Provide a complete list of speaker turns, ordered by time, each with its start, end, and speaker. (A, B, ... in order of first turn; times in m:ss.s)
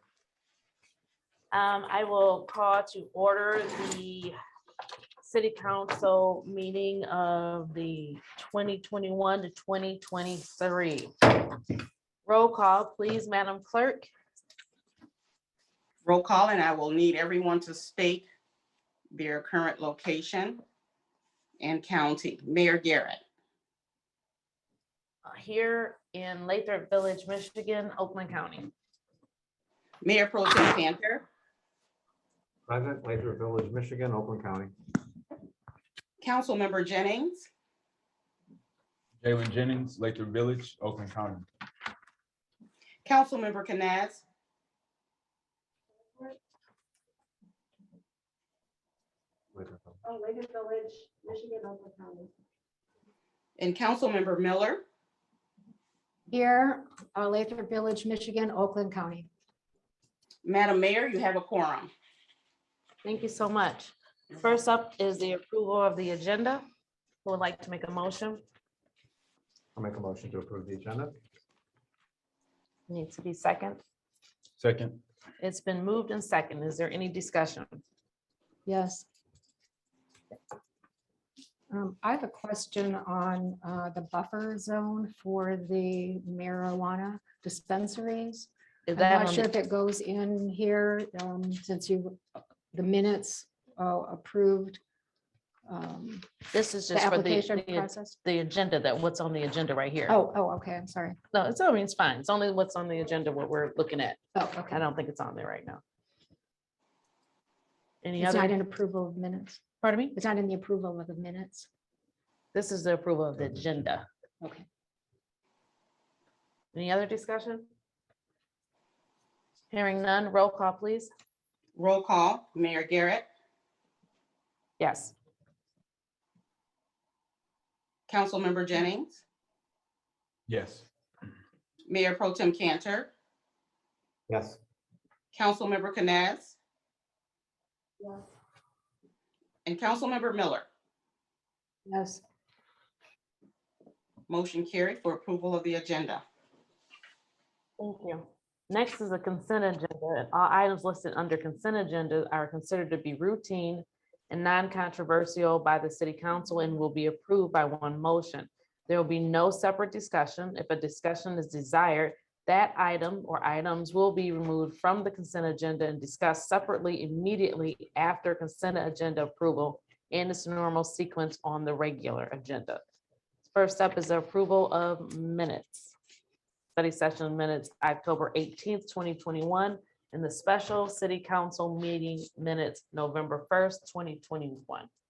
0:01.5-0:04.3 A
0:05.2-0:11.4 A
0:12.3-0:14.1 A
0:16.0-0:18.3 B
0:19.1-0:20.6 B
0:21.6-0:23.2 B
0:25.3-0:28.7 A
0:30.0-0:31.3 B
0:32.7-0:34.7 C
0:36.2-0:37.5 B
0:39.2-0:41.5 D
0:43.0-0:44.2 B
0:49.5-0:50.0 C
0:50.3-0:52.3 E
0:53.6-0:54.8 B
0:56.3-0:59.3 F
1:00.4-1:01.9 B
1:03.0-1:06.6 A
1:07.2-1:08.4 A
1:09.8-1:11.2 C
1:12.9-1:13.8 A
1:14.6-1:15.0 D
1:15.4-1:17.8 A
1:18.7-1:19.1 F
1:21.7-1:34.8 F
1:28.9-1:29.5 A
1:35.7-1:36.3 F
1:36.5-1:40.2 A
1:36.9-1:38.2 F
1:40.1-1:41.2 F
1:41.3-1:45.8 A
1:44.4-1:44.8 F
1:48.0-1:48.6 A
1:48.2-1:49.6 F
1:49.8-1:50.2 A
1:50.2-1:51.7 F
1:52.5-1:54.0 A
1:56.7-1:57.7 A
1:59.7-2:01.1 A
2:01.8-2:03.3 B
2:04.8-2:05.1 A
2:08.1-2:09.2 B
2:10.5-2:10.9 D
2:11.9-2:13.1 B
2:14.3-2:14.6 C
2:15.3-2:16.6 B
2:19.7-2:20.7 B
2:21.9-2:22.2 F
2:24.3-2:26.2 B
2:27.8-2:52.8 A
2:53.5-2:55.9 A
2:56.8-3:04.9 A